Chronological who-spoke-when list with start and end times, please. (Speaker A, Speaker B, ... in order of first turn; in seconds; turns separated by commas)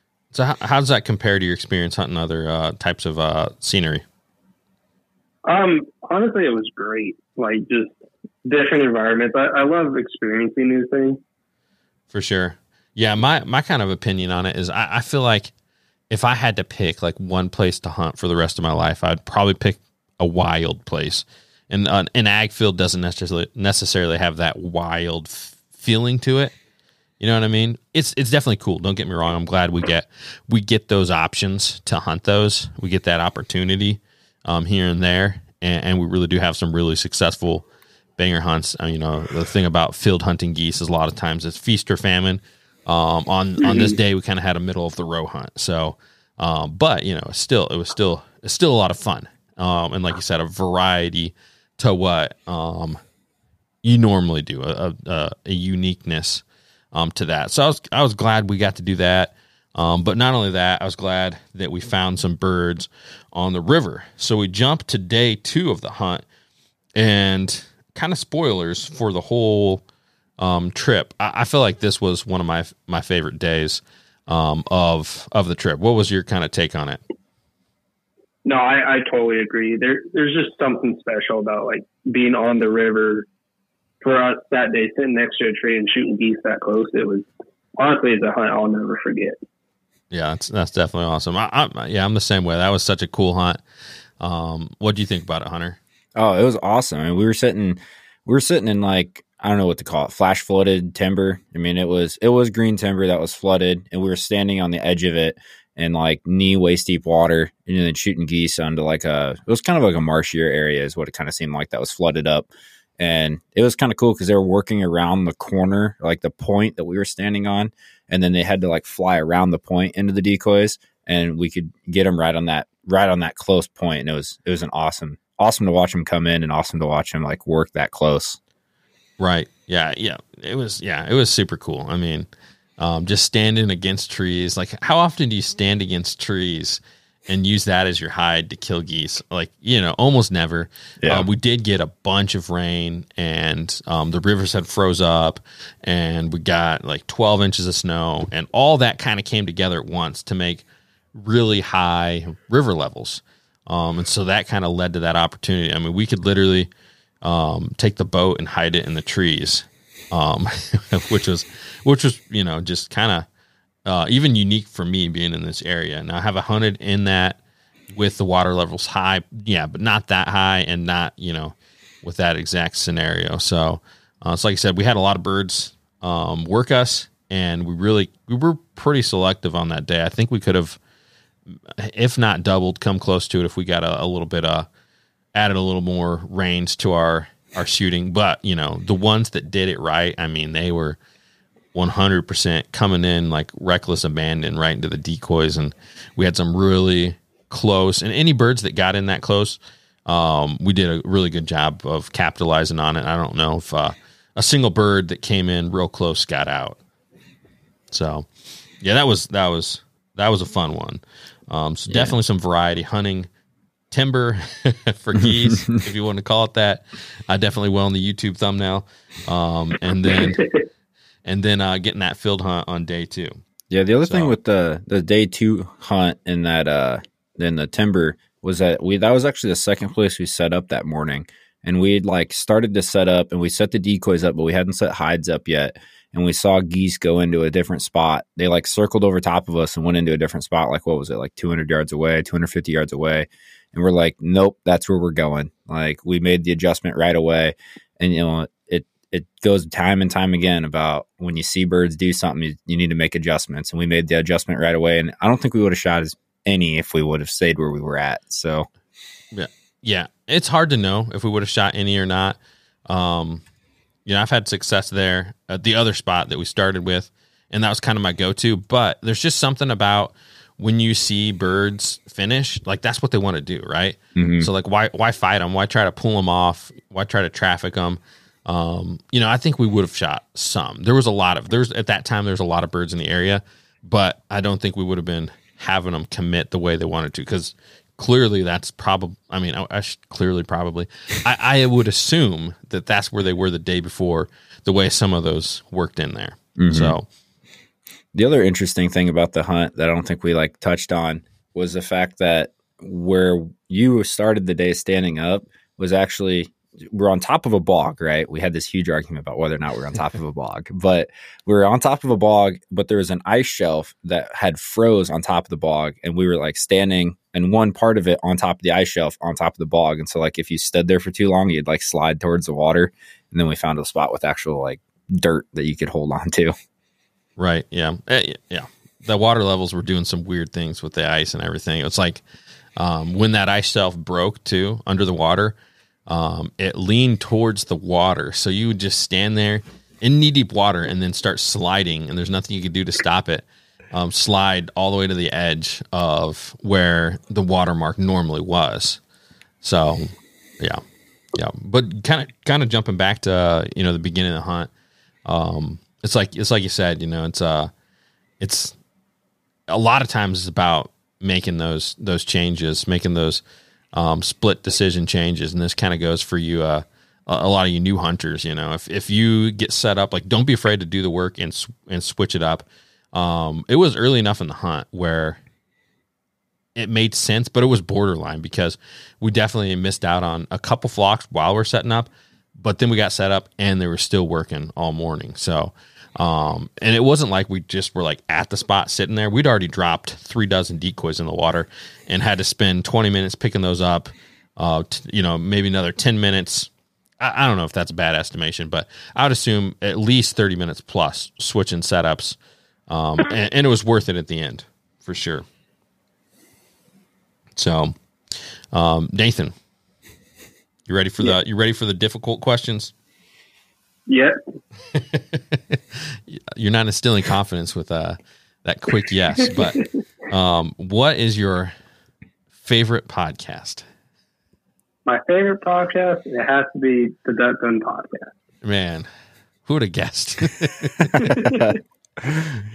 Speaker A: 0.3-4.0, Speaker B: 5.5-7.9, Speaker B: 8.4-11.2, Speaker A: 12.1-15.5, Speaker A: 16.1-26.5, Speaker A: 27.2-37.6, Speaker A: 38.2-53.0, Speaker B: 43.6-44.0, Speaker A: 53.8-66.2, Speaker A: 67.0-69.8, Speaker A: 70.4-77.0, Speaker B: 78.4-83.3, Speaker B: 84.0-87.2, Speaker B: 87.8-89.4, Speaker A: 90.1-93.6, Speaker A: 94.2-95.8, Speaker C: 96.2-128.4, Speaker A: 129.2-132.3, Speaker A: 132.8-156.7, Speaker C: 141.0-141.3, Speaker A: 157.2-163.3, Speaker A: 163.8-167.4, Speaker A: 167.9-180.8, Speaker A: 181.8-184.7, Speaker A: 185.3-191.0, Speaker A: 191.7-206.8, Speaker A: 207.9-208.3, Speaker A: 208.8-213.3, Speaker C: 211.9-212.1, Speaker A: 213.9-220.4, Speaker B: 220.1-220.5, Speaker A: 221.2-223.4, Speaker C: 223.7-258.7, Speaker A: 224.0-224.3, Speaker A: 259.3-262.4, Speaker A: 262.9-263.4, Speaker A: 264.1-297.0, Speaker C: 274.1-274.5, Speaker C: 296.6-297.0, Speaker C: 298.1-326.5, Speaker A: 327.4-332.2, Speaker A: 332.8-349.0, Speaker A: 349.6-350.8, Speaker A: 351.3-354.7, Speaker A: 355.2-357.7, Speaker A: 358.4-358.8, Speaker A: 359.7-363.4, Speaker A: 363.9-375.4, Speaker A: 376.8-402.4, Speaker A: 402.9-405.4, Speaker A: 407.6-407.9, Speaker A: 408.7-409.5, Speaker A: 410.9-412.9, Speaker B: 414.1-414.4, Speaker A: 414.9-421.7, Speaker A: 422.6-423.9, Speaker B: 425.1-428.3, Speaker A: 428.6-429.1, Speaker A: 429.6-431.6, Speaker C: 431.1-432.5, Speaker B: 431.2-431.7